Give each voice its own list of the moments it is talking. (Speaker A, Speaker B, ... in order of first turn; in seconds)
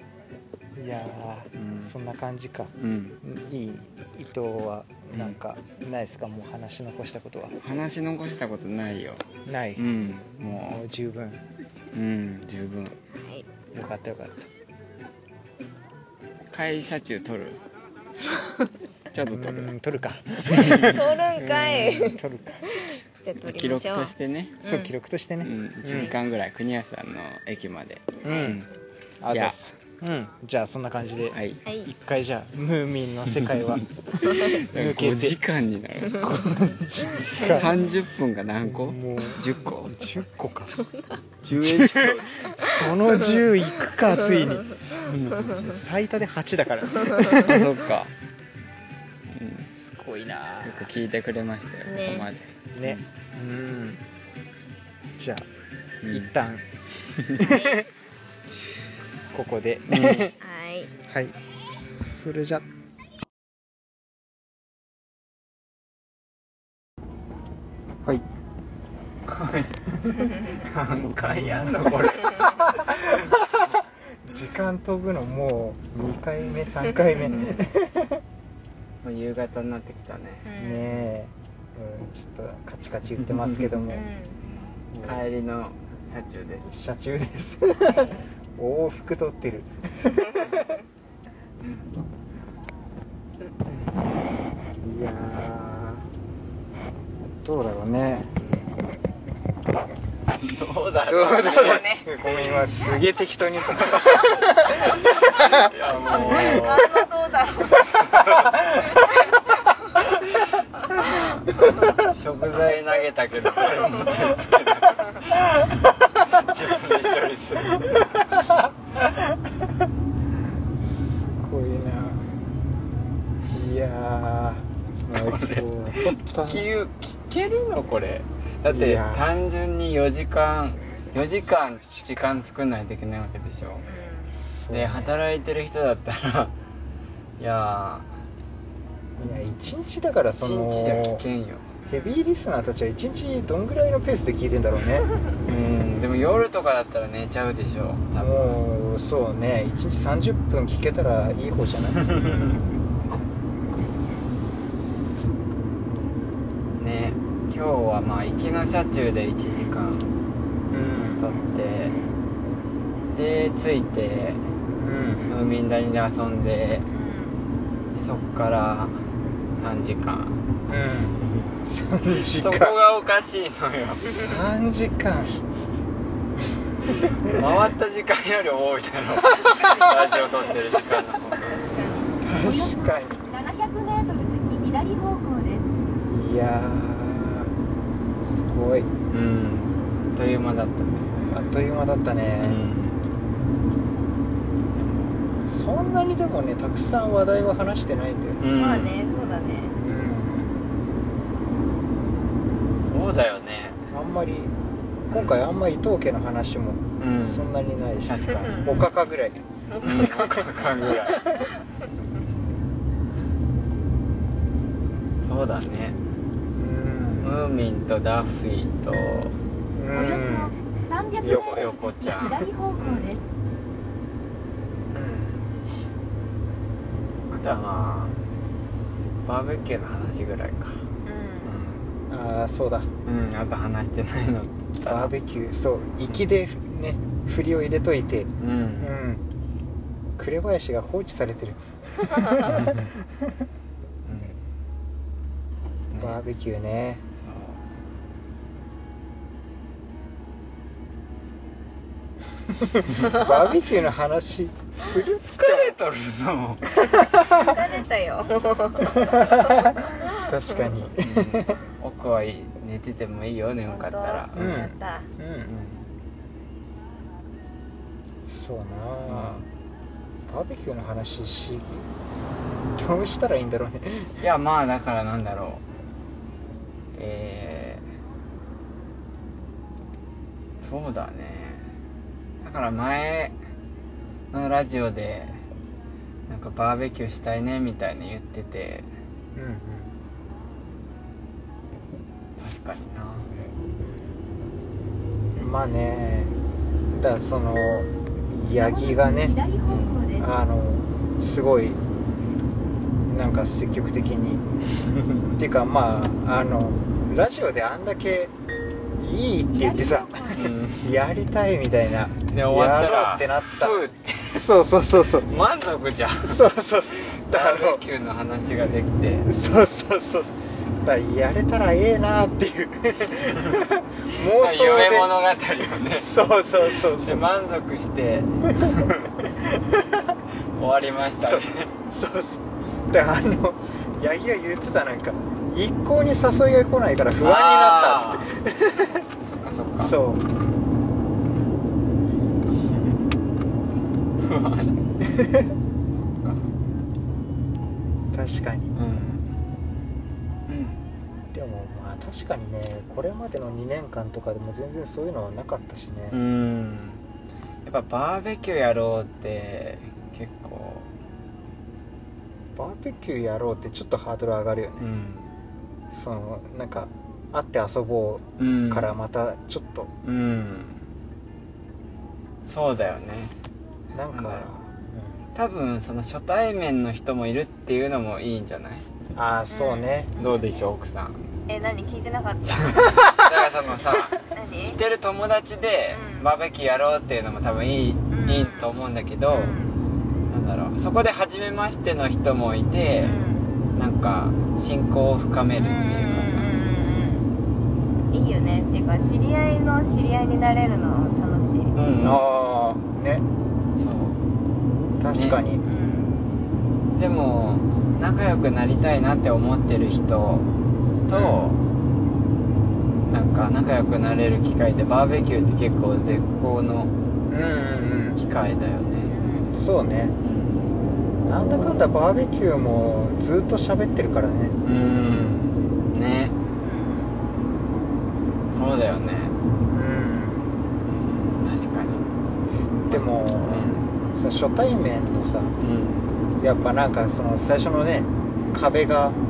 Speaker A: 0.7-7.6, 9.4-9.9, 10.5-11.4, 13.7-14.5, 19.2-22.6, 24.6-26.1, 28.2-28.6, 29.2-35.4, 36.2-37.8, 38.6-40.8, 41.5-44.8, 45.4-47.8, 49.7-50.9, 52.7-54.0, 55.2-55.5, 56.1-56.6, 57.4-57.8, 59.3-60.3, 61.1-62.6, 74.2-78.2, 80.5-84.0, 86.7-89.7, 94.8-96.0, 97.4-98.3, 101.0-106.7, 108.4-109.0, 117.8-119.3, 120.8-122.3, 123.5-126.7, 128.7-129.3, 134.3-135.1, 139.2-141.2, 141.9-145.1, 148.2-152.1, 160.7-161.2, 164.7-165.4, 170.7-172.8, 174.2-175.3, 177.1-177.5, 179.1-180.7, 182.2-183.3, 186.1-187.5, 188.2-188.9, 191.3-192.6, 195.4-198.4, 199.8-200.6, 203.9-204.5, 205.0-209.4, 210.2-211.5, 216.6-217.4, 219.7-220.6, 232.1-232.9, 234.8-239.2, 240.2-243.4, 245.9-247.0, 252.5-255.8, 257.1-257.5, 259.0-261.6, 264.3-265.8, 268.3-269.4, 270.3-271.8, 272.8-274.2, 289.3-289.9, 295.4-296.4, 296.9-299.4, 300.2-301.8, 303.1-304.4, 305.3-308.3, 309.0-315.3, 316.2-317.8, 319.2-325.1, 325.9-327.2, 328.6-330.1, 331.2-339.1, 339.8-340.2, 345.0-345.5, 348.1-348.8, 351.3-356.2, 362.6-364.9, 365.9-369.9, 373.9-375.2, 379.1-380.1, 402.0-403.2, 405.0-405.6, 411.1-411.5, 417.3-418.2, 419.5-420.1, 421.2-424.6, 429.7-430.5, 432.9-435.6, 436.4-439.2
Speaker B: 1.6-1.9, 2.8-3.2, 7.6-10.8, 11.9-12.9, 16.5-17.6, 19.1-19.7, 20.5-22.0, 23.4-24.6, 25.4-28.7, 29.3-29.7, 31.3-31.6, 33.3-36.6, 37.2-40.0, 41.4-42.7, 44.9-45.7, 47.2-48.1, 49.3-49.7, 50.6-53.0, 56.0-56.3, 57.2-57.4, 59.9-60.3, 69.3-73.3, 77.2-77.6, 79.0-81.1, 84.9-86.8, 90.4-90.7, 98.4-98.7, 100.4-102.4, 105.0-107.0, 108.0-108.5, 112.0-118.2, 125.1-133.8, 134.7-136.5, 137.4-138.1, 140.4-141.7, 145.4-148.6, 151.9-152.6, 156.8-160.1, 161.2-161.9, 163.1-164.4, 165.3-166.9, 167.9-169.0, 169.6-170.4, 172.2-174.2, 177.2-182.0, 189.1-191.1, 192.4-193.0, 194.7-195.3, 198.4-199.1, 202.9-203.8, 205.1-205.4, 207.0-207.5, 208.0-208.7, 209.8-211.5, 215.2-216.0, 217.2-219.3, 221.2-223.2, 224.9-225.4, 227.3-228.2, 229.2-230.8, 231.4-231.9, 233.0-235.1, 238.4-238.9, 242.4-242.8, 244.1-244.4, 245.9-246.2, 247.2-247.7, 254.9-256.6, 261.0-264.5, 269.1-269.4, 274.2-275.6, 276.9-277.8, 280.6-281.7, 282.4-283.4, 284.3-285.4, 286.3-288.9, 292.4-293.3, 299.7-300.1, 310.3-310.9, 312.3-314.5, 315.2-316.4, 317.2-319.3, 324.1-326.1, 326.7-329.0, 330.6-331.7, 337.2-338.3, 339.2-339.9, 342.6-343.1, 344.2-344.8, 346.0-346.4, 348.7-349.3, 350.5-350.8, 356.1-357.0, 357.6-360.9, 364.8-365.3, 368.4-368.9, 370.0-370.8, 372.4-373.3, 374.1-374.5, 375.3-378.8, 380.2-381.2, 382.4-389.6, 390.3-393.2, 393.7-396.5, 401.7-402.2, 403.8-404.2, 405.1-405.4, 406.9-410.5, 411.1-411.6, 413.1-416.9, 418.1-419.1, 420.2-420.8, 424.6-426.3, 428.5-429.4, 431.0-432.1, 432.9-433.9, 435.6-436.2
Speaker C: 13.1-13.4, 20.7-24.9, 25.9-26.1, 28.2-28.6, 31.6-31.9, 34.2-34.5, 37.2-37.9, 40.7-41.1, 47.0-47.3, 51.9-52.3, 57.4-57.8, 60.4-60.9, 80.4-80.9, 83.9-84.4, 101.2-102.1, 106.1-107.9, 108.8-110.0, 133.8-134.3, 141.8-142.2, 166.9-167.3, 181.5-182.1, 191.1-191.7, 198.5-199.7, 208.4-208.8, 209.7-210.3, 231.0-231.5, 256.8-260.3, 263.7-265.1, 295.3-295.7, 379.5-380.4, 381.5-383.0, 384.2-384.8, 385.9-386.3, 388.1-388.7, 389.3-389.8, 393.0-393.5, 395.5-397.3, 398.1-401.7, 405.6-406.1, 419.1-419.5, 426.6-427.1
Speaker D: 182.4-185.7, 219.9-223.2, 298.6-300.3, 309.5-310.5